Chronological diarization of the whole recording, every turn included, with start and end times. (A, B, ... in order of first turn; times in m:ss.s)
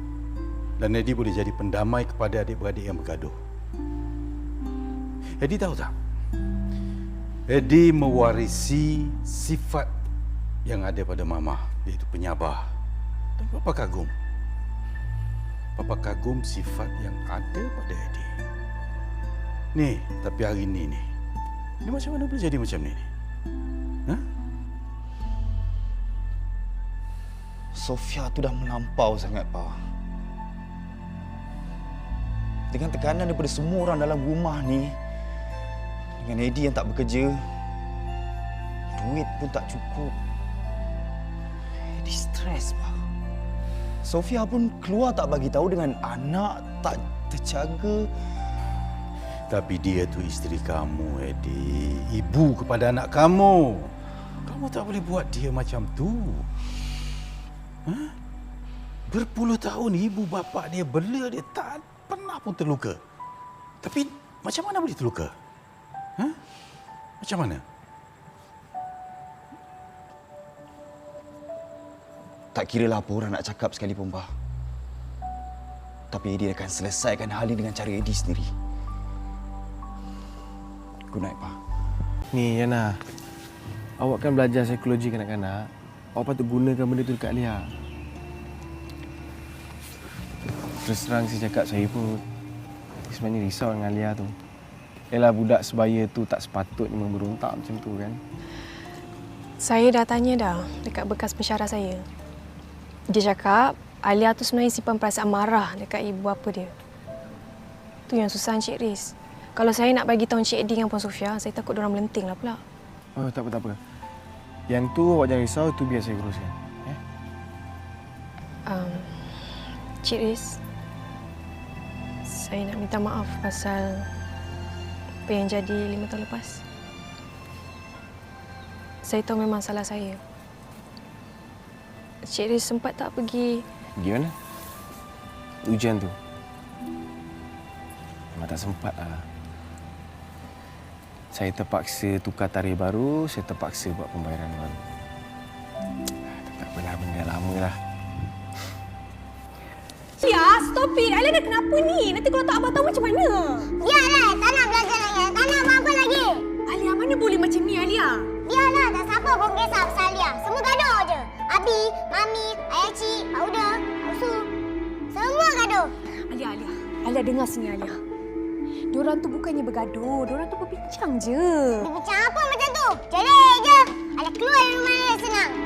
0:00.8-0:03.4 A
0:05.4-0:05.9 A
0:07.5-0:09.9 A
0:10.7-0:12.6 A
0:13.4-0:14.1 A
0:15.8-0:18.3 A
0:19.7-0:21.0 A
0:21.8-0:23.0 A
0:27.7-0:29.8 B
0:32.7-0:35.0 B
0:36.2-0:37.5 B
0:38.9-0:40.2 B
0:41.9-0:43.0 B
0:44.0-0:48.1 B
0:49.5-0:53.9 A
0:54.5-0:56.5 A
0:57.9-0:58.1 A
0:59.1-1:03.0 A
1:03.8-1:05.3 A
1:07.2-1:07.6 A
1:12.5-1:14.3 B
1:16.1-1:18.5 B
1:21.1-1:21.6 B
1:22.3-1:23.0 C
1:24.0-1:27.7 C
1:30.8-1:32.2 C
1:33.1-1:34.3 C
1:35.1-1:38.2 C
1:39.6-1:42.0 D
1:43.2-1:46.6 D
1:48.1-1:52.6 D
1:53.2-1:53.8 C
1:54.7-1:57.0 C
1:58.7-1:59.0 D
2:00.0-2:00.6 D
2:02.3-2:03.8 D
2:05.3-2:06.6 D
2:09.1-2:10.1 D
2:12.3-2:13.5 D
2:14.0-2:14.3 C
2:15.7-2:16.1 C
2:18.4-2:19.2 C
2:21.3-2:24.8 C
2:26.3-2:27.8 C
2:30.2-2:33.7 E
2:33.8-2:36.4 F
2:36.7-2:38.3 E
2:38.5-2:44.5 F
2:45.1-2:45.9 F
2:46.3-2:48.0 E
2:48.9-2:51.9 E
2:51.8-2:55.6 F